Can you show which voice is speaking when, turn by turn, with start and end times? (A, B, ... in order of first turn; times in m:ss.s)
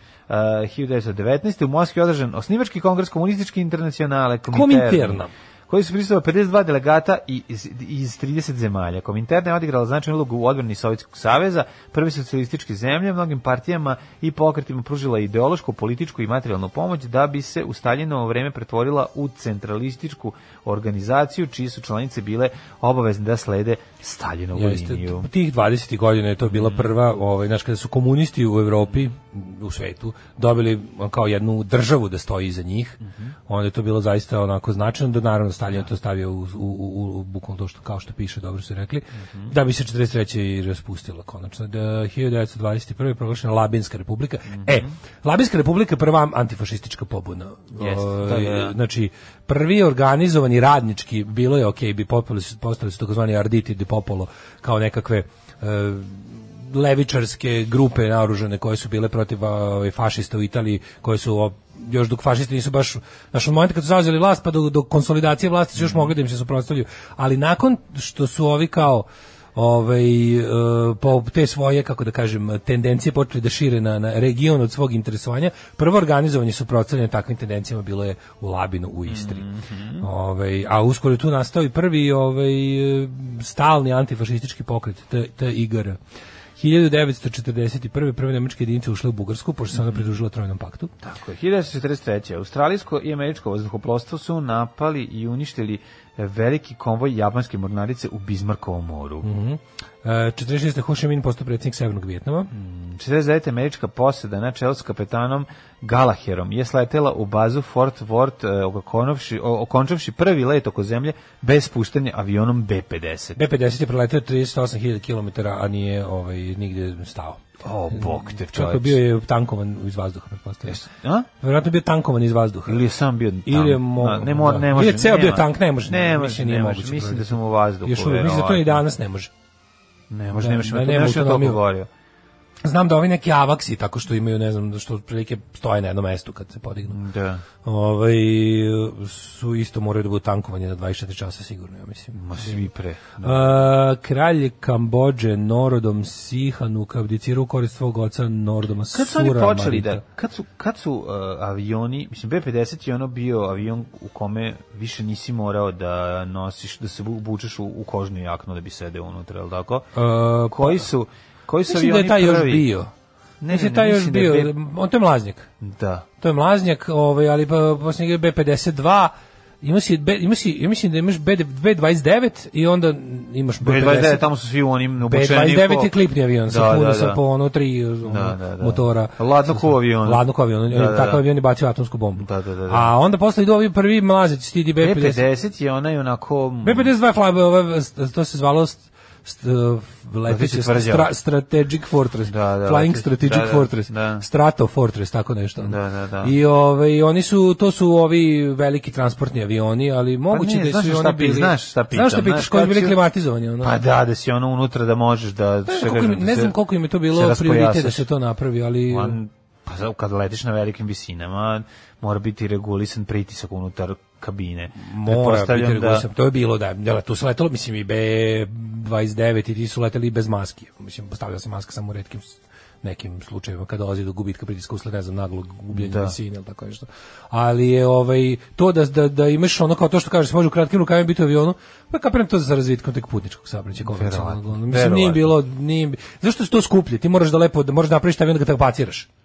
0:00.3-0:25.3 A
0:04.5-0:05.3 B
0:24.6-1:19.4 B
0:26.5-0:26.9 A
0:44.5-0:44.9 A
0:47.8-0:48.8 A
1:05.8-1:06.1 A
1:19.1-1:20.1 A
1:20.0-1:26.0 B
1:26.6-1:30.9 B
1:31.0-1:39.3 A
1:39.2-1:42.5 B
1:42.5-1:53.4 A
1:53.4-2:00.8 B
1:57.6-1:59.0 A
2:00.7-2:01.3 A
2:01.4-2:02.8 B
2:02.7-2:08.8 A
2:03.5-2:09.3 B
2:10.1-2:11.9 A
2:10.4-2:11.6 B
2:12.6-2:17.0 B
2:16.9-2:17.4 A
2:17.6-2:22.7 B
2:22.1-2:23.6 A
2:23.2-2:30.0 B
2:28.9-2:39.9 A
2:40.0-2:40.9 B
2:40.5-2:42.7 A
2:41.7-2:42.9 B
2:43.4-2:44.5 A
2:43.5-2:45.5 B
2:45.6-2:46.1 A
2:46.2-2:54.2 B
2:53.6-2:56.0 A
2:55.0-3:05.2 B
2:56.5-2:57.2 A
2:58.1-3:01.2 A
3:02.2-3:02.9 A
3:04.8-3:06.9 A
3:06.6-3:23.8 B
3:10.3-3:11.1 A
3:12.3-3:14.2 A
3:15.6-3:16.3 A
3:20.3-3:23.0 A
3:23.6-3:26.6 A
3:25.7-3:29.2 B
3:27.1-3:28.1 A
3:28.9-3:36.1 A
3:34.8-3:59.1 B
3:45.7-3:46.2 A
3:53.8-3:55.4 A